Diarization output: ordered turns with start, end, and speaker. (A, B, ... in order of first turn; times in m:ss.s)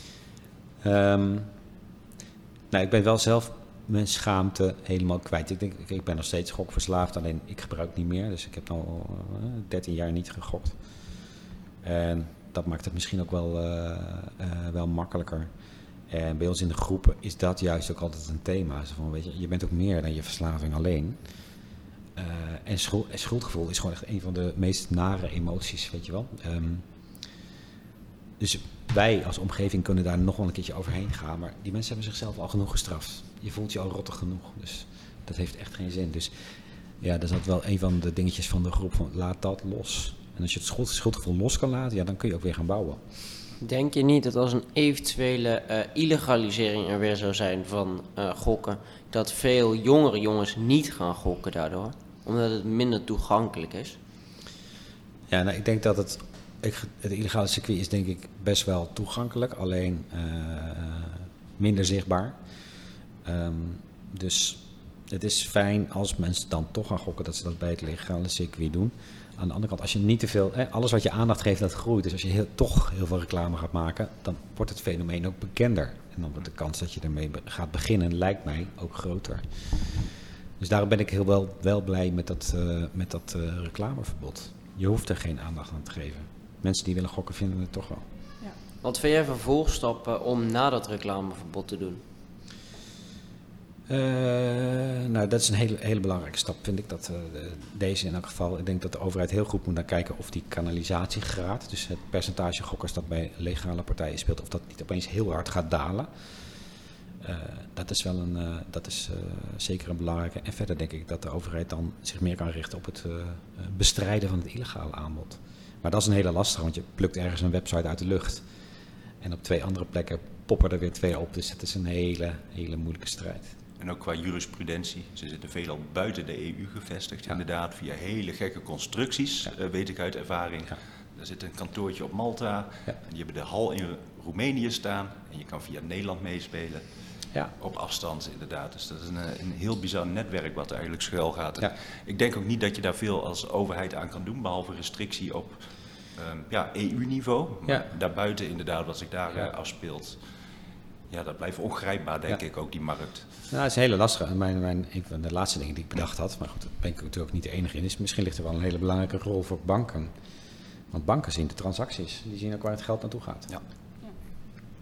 0:00.8-0:01.5 A
0:02.7-0:11.2 A
0:11.8-0:15.5 A
0:16.1-0:21.2 A
0:22.2-0:26.8 A
0:28.4-0:36.5 A
0:37.0-0:43.2 A
0:43.6-0:54.0 B
0:55.3-1:02.4 A
1:03.2-1:28.0 A
1:28.8-1:32.0 B
1:33.9-1:46.4 A
1:47.2-1:58.4 A
1:59.2-2:03.5 A
2:03.8-2:16.9 C
2:17.6-2:30.2 C
2:31.1-2:33.3 C
2:33.5-2:40.1 A
2:40.9-2:43.5 A